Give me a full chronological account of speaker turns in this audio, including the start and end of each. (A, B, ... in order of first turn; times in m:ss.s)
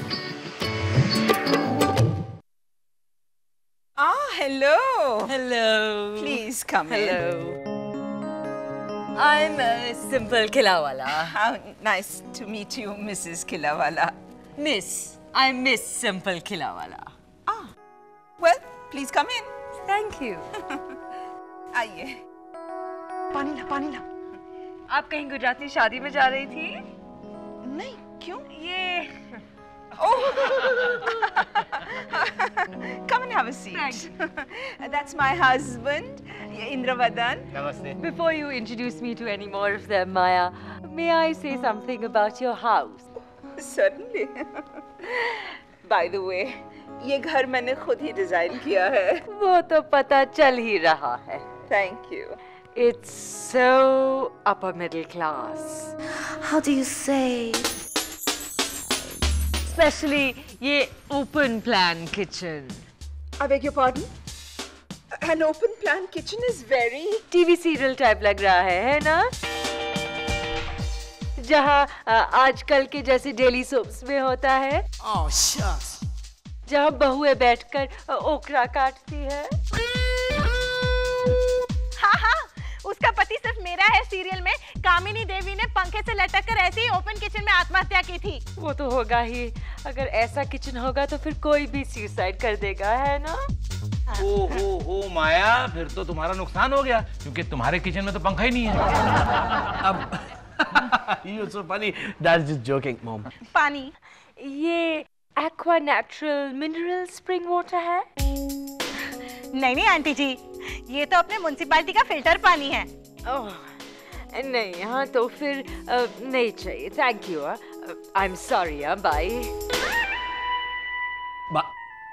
0:04.0-0:05.3 A
0:05.3-0:07.6 B
0:06.2-0:07.2 A
0:09.1-0:11.3 B
0:11.2-0:14.2 A
0:14.6-0:17.1 B
0:18.4-0:19.5 A
0:19.8-0:20.4 B
0:21.7-0:22.1 A
0:23.3-0:24.0 A
0:24.9-0:26.8 B
0:27.6-0:28.4 A
0:28.5-0:29.1 B
0:30.0-0:37.5 A
0:33.7-0:34.1 B
0:37.9-0:43.0 B
0:43.6-0:49.2 A
0:49.3-0:51.4 B
0:51.7-0:52.4 A
0:52.7-0:57.7 B
0:59.6-1:02.8 B
1:03.4-1:04.1 A
1:05.2-1:07.2 A
1:07.3-1:09.3 B
1:11.4-1:14.8 B
1:16.6-1:19.5 B
1:22.0-1:28.4 C
1:28.6-1:33.4 B
1:34.1-1:39.0 D
1:39.8-1:43.3 E
1:43.5-1:43.9 C
1:44.4-1:48.0 B
1:49.5-1:52.9 C
1:53.2-1:53.7 B
1:54.3-1:59.5 B